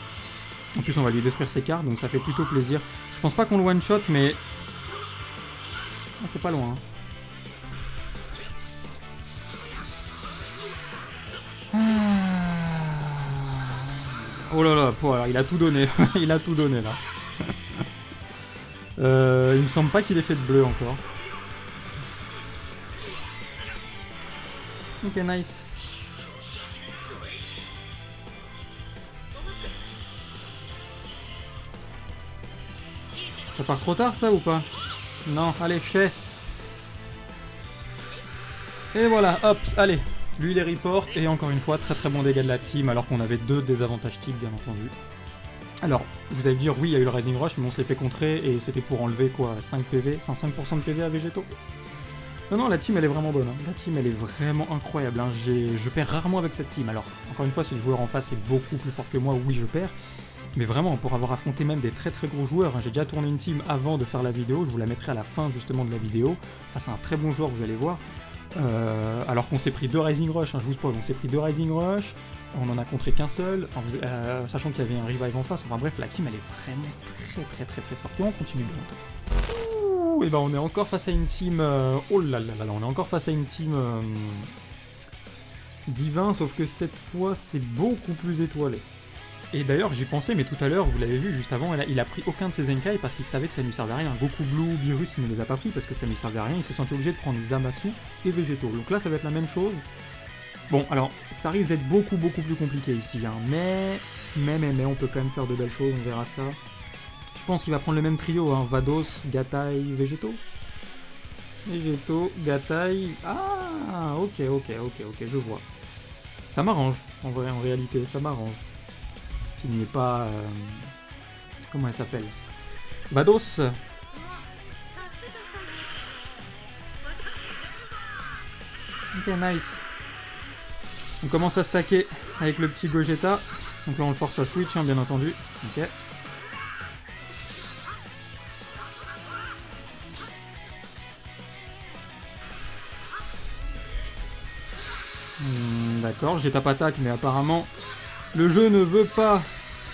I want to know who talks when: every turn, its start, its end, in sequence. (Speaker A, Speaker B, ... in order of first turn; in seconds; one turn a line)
Speaker A: 0.7-4.4
Speaker A: 6.2-6.8
Speaker A: 11.7-17.8
Speaker A: 19.0-21.0
Speaker A: 25.0-25.6
Speaker A: 33.5-34.7
Speaker A: 35.2-36.1
Speaker A: 38.9-44.9
Speaker A: 45.8-51.5
Speaker A: 52.5-59.9
Speaker A: 60.5-68.0
Speaker A: 68.5-84.5
Speaker A: 85.9-88.8
Speaker A: 89.5-99.8
Speaker A: 100.7-106.6
Speaker A: 107.3-110.4
Speaker A: 111.7-115.6
Speaker A: 116.5-118.6
Speaker A: 119.6-120.9
Speaker A: 121.7-122.3
Speaker A: 123.1-123.8
Speaker A: 129.1-129.8
Speaker A: 131.2-135.9
Speaker A: 145.4-147.7
Speaker A: 148.3-149.5